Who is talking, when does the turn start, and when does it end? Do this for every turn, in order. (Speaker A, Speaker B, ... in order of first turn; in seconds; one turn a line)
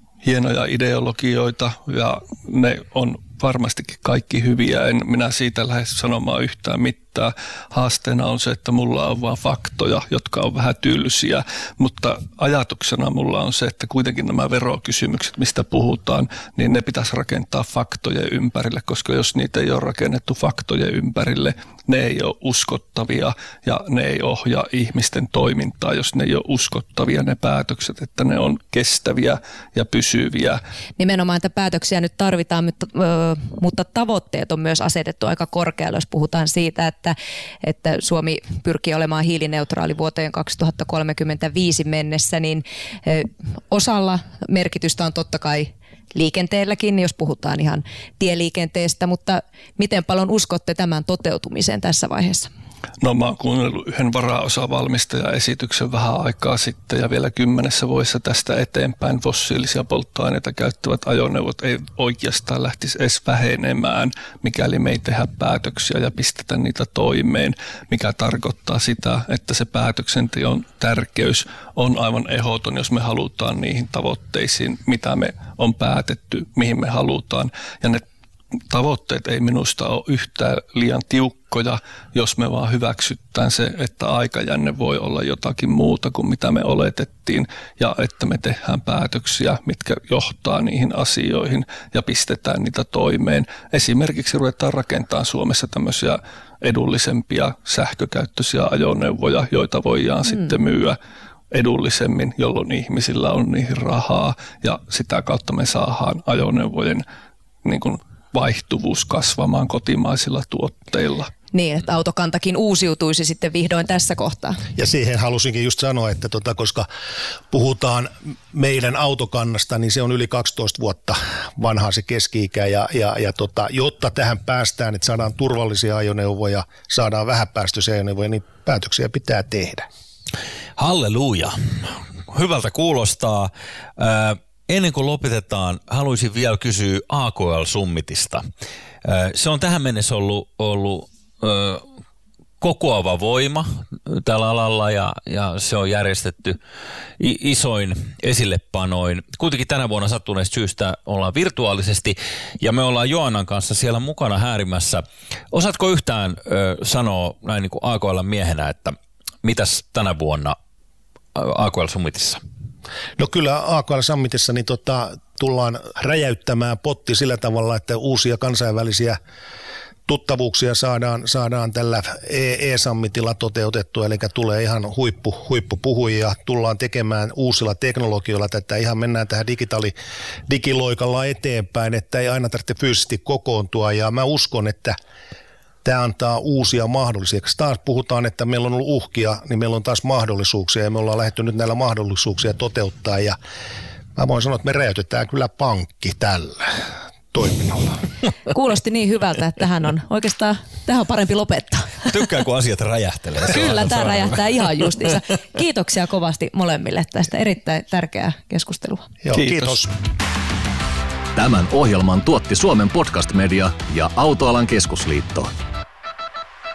Speaker A: 0.2-30.6
Speaker B: 31.0-52.5
Speaker A: 53.0-78.0
Speaker A: 78.7-101.0
Speaker A: 101.5-107.0
Speaker A: 107.6-111.3
Speaker B: 111.5-114.6
Speaker C: 114.8-116.9
Speaker C: 117.5-129.9
Speaker D: 130.8-138.4
Speaker D: 139.0-141.8
Speaker D: 142.6-146.6
Speaker D: 147.2-160.6
Speaker D: 161.3-162.4
Speaker C: 163.2-169.2
Speaker C: 170.1-179.9
Speaker C: 180.5-185.0
Speaker C: 185.8-193.4
Speaker C: 194.2-198.0
Speaker B: 198.5-202.1
Speaker D: 202.1-204.3
Speaker B: 203.4-209.1
Speaker C: 209.2-209.9
Speaker A: 209.3-209.8
Speaker E: 211.4-215.5